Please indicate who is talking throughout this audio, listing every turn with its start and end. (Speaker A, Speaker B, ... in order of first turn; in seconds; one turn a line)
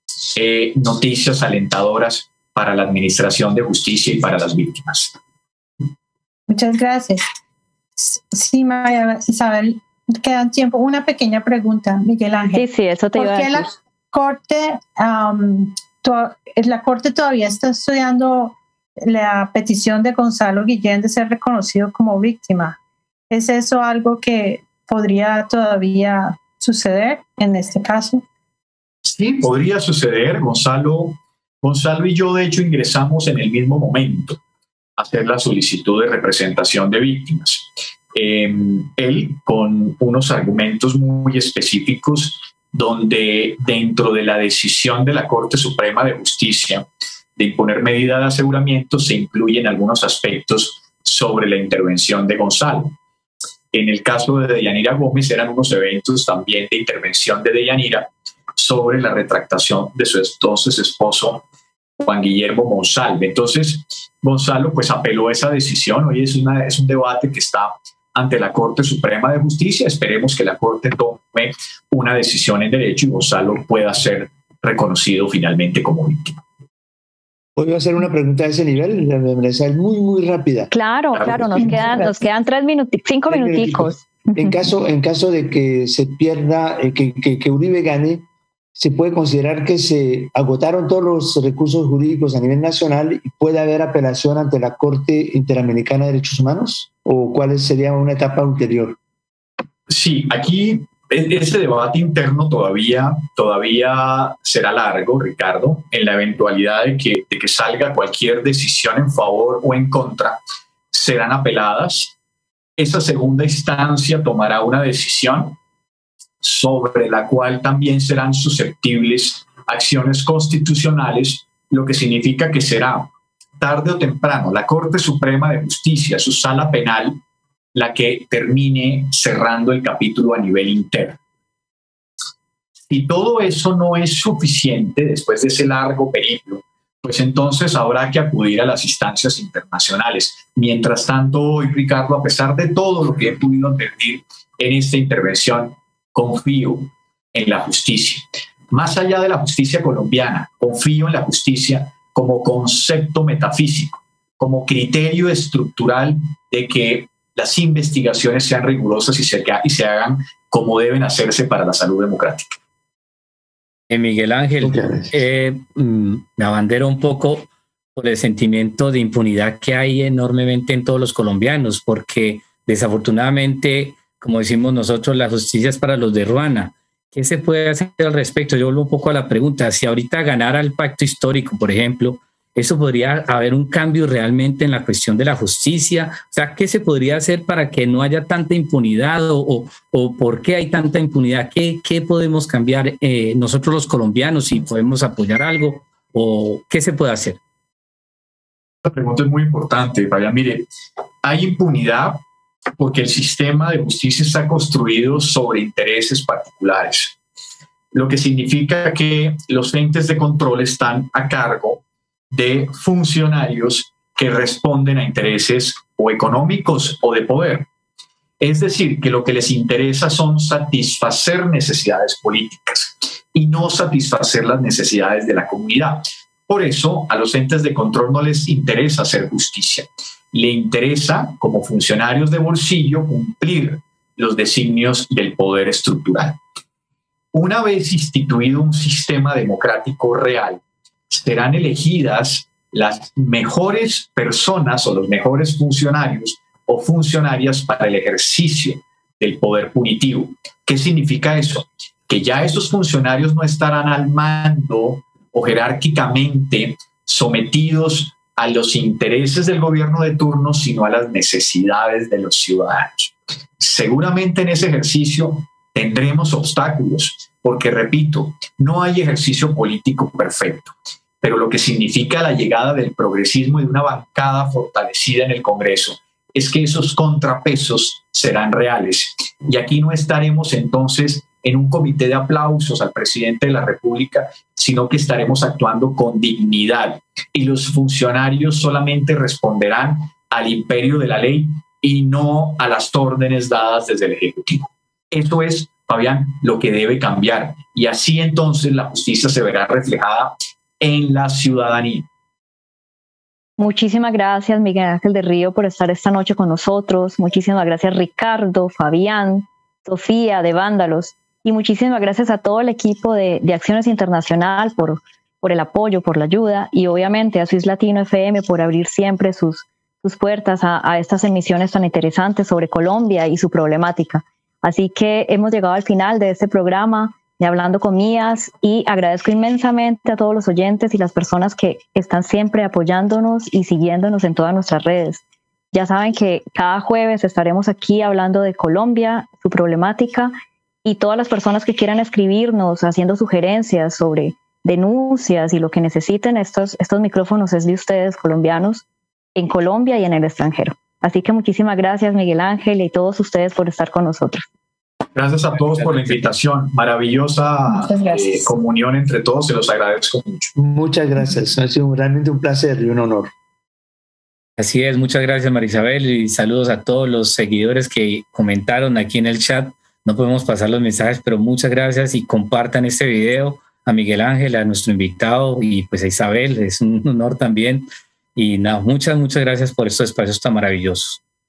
Speaker A: 0.3-5.1
Speaker B: 6.5-7.2
Speaker B: 8.0-12.6
Speaker C: 12.5-13.6
Speaker B: 13.2-22.8
Speaker B: 23.3-28.2
Speaker A: 29.1-34.4
Speaker A: 35.0-53.0
Speaker A: 53.7-61.5
Speaker A: 62.0-76.4
Speaker D: 77.6-80.7
Speaker C: 80.7-84.6
Speaker A: 81.2-81.8
Speaker D: 81.2-82.0
Speaker D: 83.3-99.0
Speaker A: 99.9-110.4
Speaker A: 110.9-112.2
Speaker A: 112.8-115.6
Speaker A: 116.4-127.2
Speaker A: 127.7-131.2
Speaker A: 132.9-162.6
Speaker E: 163.9-197.4
Speaker D: 164.6-165.2
Speaker A: 198.8-200.7
Speaker A: 201.2-202.2
Speaker A: 202.8-207.2
Speaker A: 207.9-217.7
Speaker A: 218.4-236.4
Speaker A: 237.3-302.1
Speaker C: 303.6-340.3
Speaker C: 340.8-354.5
Speaker A: 355.1-360.5
Speaker B: 357.7-358.5
Speaker D: 360.6-363.3
Speaker E: 364.6-381.2